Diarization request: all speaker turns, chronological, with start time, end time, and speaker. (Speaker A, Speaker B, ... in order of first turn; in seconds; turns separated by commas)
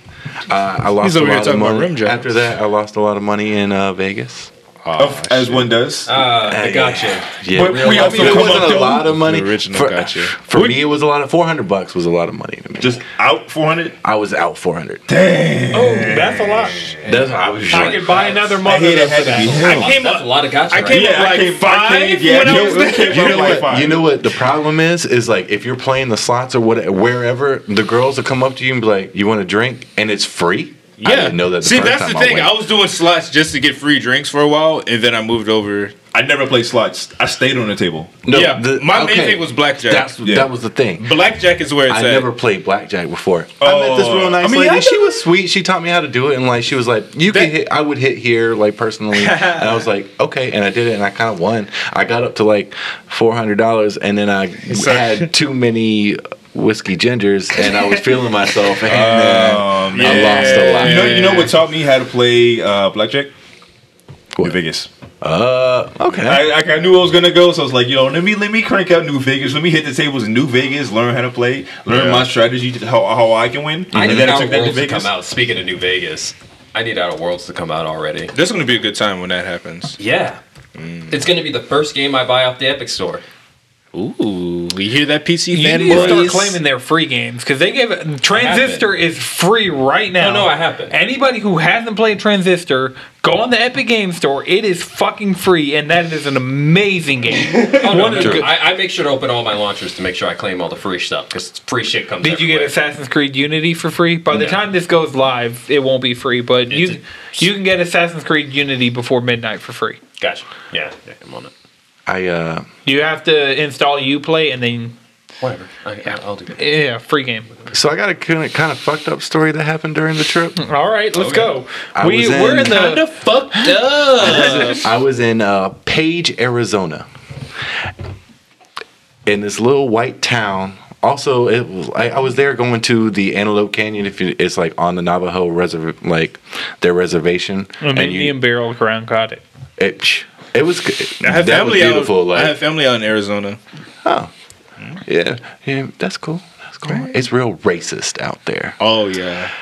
Speaker A: 0.5-4.5, Speaker B: 1.0-2.3, Speaker B: 4.8-5.7, Speaker C: 5.0-6.2, Speaker D: 6.0-8.6, Speaker A: 6.5-13.0, Speaker C: 7.5-9.2, Speaker B: 8.2-10.8, Speaker C: 12.8-14.0, Speaker A: 14.0-15.0, Speaker C: 15.1-17.1, Speaker E: 15.7-16.9, Speaker A: 17.0-18.3, Speaker E: 17.7-19.7, Speaker C: 18.6-19.9, Speaker B: 19.4-23.9, Speaker D: 19.5-21.4, Speaker C: 20.9-24.1, Speaker A: 22.3-32.5, Speaker B: 31.0-35.9, Speaker C: 36.1-38.2, Speaker A: 38.2-41.2, Speaker B: 38.3-40.3, Speaker B: 41.0-42.3, Speaker A: 41.9-61.4, Speaker C: 43.6-45.2, Speaker B: 47.3-47.5, Speaker B: 49.1-49.8, Speaker B: 54.7-55.3, Speaker C: 58.8-63.3, Speaker B: 59.9-61.5, Speaker C: 64.4-64.9, Speaker A: 65.2-66.5, Speaker C: 66.2-75.1, Speaker B: 71.9-72.2, Speaker A: 73.9-74.3, Speaker D: 73.9-78.3, Speaker B: 78.3-80.0, Speaker D: 80.0-80.4, Speaker B: 80.8-81.3, Speaker D: 81.1-83.2, Speaker B: 83.9-86.6, Speaker E: 85.5-98.5, Speaker D: 85.9-86.2, Speaker D: 88.3-88.9, Speaker D: 90.2-90.9, Speaker D: 97.5-102.7, Speaker A: 98.2-98.5, Speaker E: 102.2-110.0, Speaker D: 104.3-104.6, Speaker D: 106.7-107.4, Speaker D: 110.2-111.5, Speaker A: 112.1-112.7, Speaker E: 112.8-114.9, Speaker D: 115.4-116.8, Speaker E: 116.5-117.5, Speaker A: 117.7-120.6, Speaker E: 120.5-123.8, Speaker D: 121.2-121.5, Speaker A: 121.9-122.8, Speaker B: 122.7-124.9, Speaker A: 124.2-127.1, Speaker A: 129.2-138.4, Speaker E: 137.8-139.4, Speaker A: 139.8-142.6, Speaker B: 141.2-143.6, Speaker A: 144.0-144.3, Speaker A: 145.1-148.8, Speaker B: 148.8-149.5